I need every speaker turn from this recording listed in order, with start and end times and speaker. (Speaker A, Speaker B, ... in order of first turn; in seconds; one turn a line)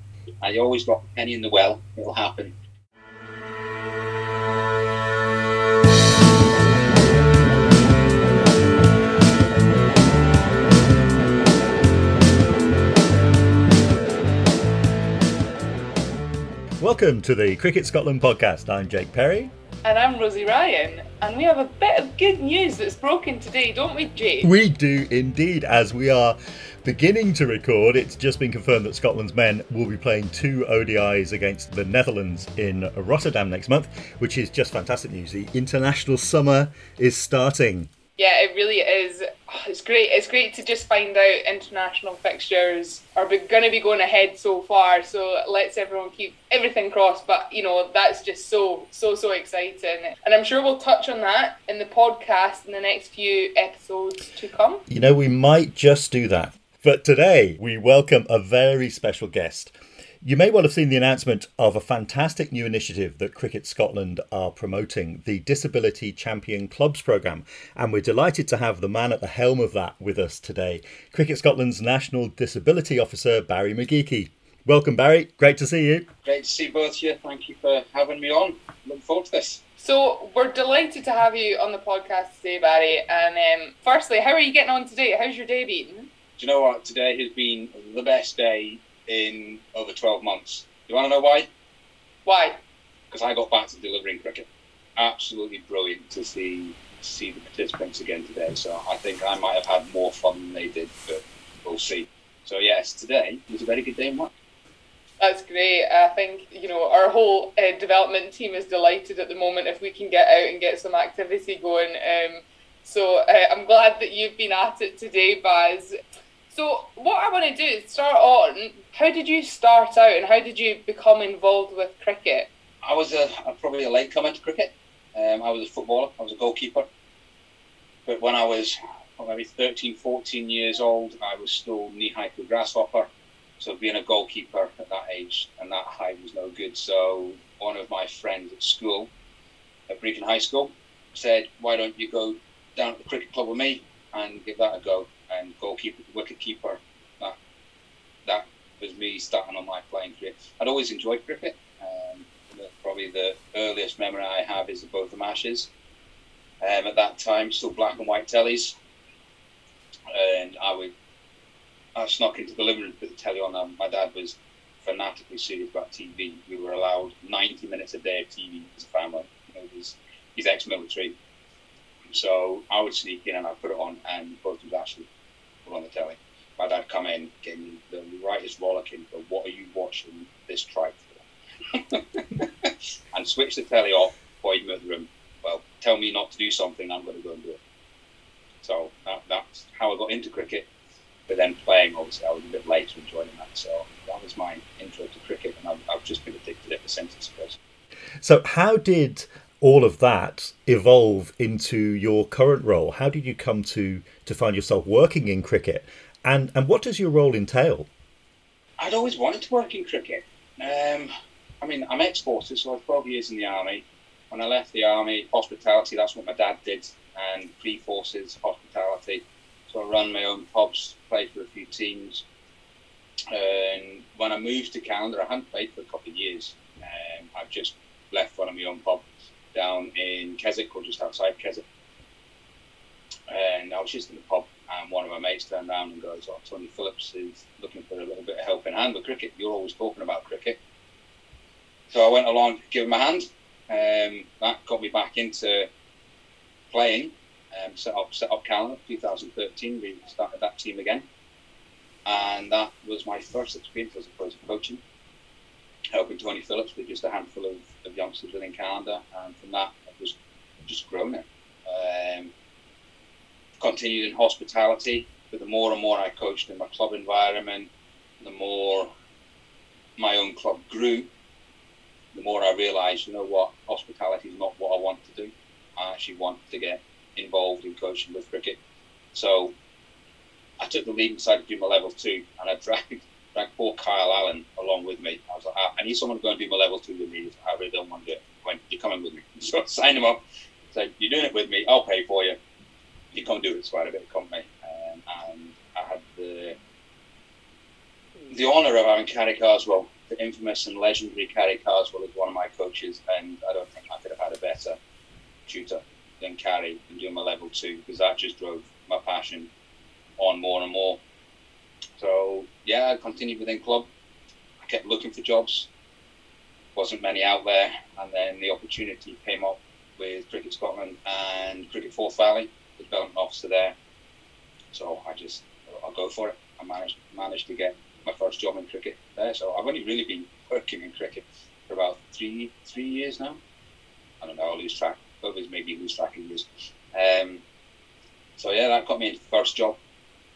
Speaker A: 0.4-2.5
Speaker B: 16.8-19.5
Speaker C: 19.8-24.5
Speaker B: 24.4-37.9
Speaker C: 38.2-54.8
Speaker B: 54.9-76.1
Speaker A: 76.2-79.6
Speaker C: 79.8-86.1
Speaker A: 86.4-91.5
Speaker C: 92.2-92.6
Speaker A: 93.1-104.3
Speaker C: 105.2-115.9
Speaker C: 116.5-122.5
Speaker A: 122.8-126.9
Speaker A: 128.1-139.1
Speaker A: 139.9-147.3
Speaker A: 148.2-155.7
Speaker A: 156.6-158.7
Speaker A: 160.1-160.9
Speaker A: 161.9-171.2
Speaker A: 172.1-175.1
Speaker A: 175.6-187.6
Speaker A: 188.6-190.7
Speaker A: 191.3-197.6
Speaker B: 198.2-207.9
Speaker A: 208.8-211.1
Speaker A: 211.6-222.2
Speaker A: 223.3-231.6
Speaker A: 233.3-240.6
Speaker A: 241.9-245.7
Speaker A: 246.7-251.1
Speaker A: 252.1-254.8
Speaker A: 255.9-262.3
Speaker A: 263.6-268.9
Speaker A: 270.0-271.1
Speaker A: 272.1-278.6
Speaker A: 279.1-279.5
Speaker A: 280.6-292.4
Speaker A: 293.1-296.6
Speaker A: 298.3-304.8
Speaker A: 305.5-309.5
Speaker A: 310.2-311.0
Speaker A: 312.0-313.9
Speaker A: 314.6-315.7
Speaker A: 316.7-323.8
Speaker A: 324.7-333.4
Speaker A: 334.2-337.4
Speaker A: 338.4-339.8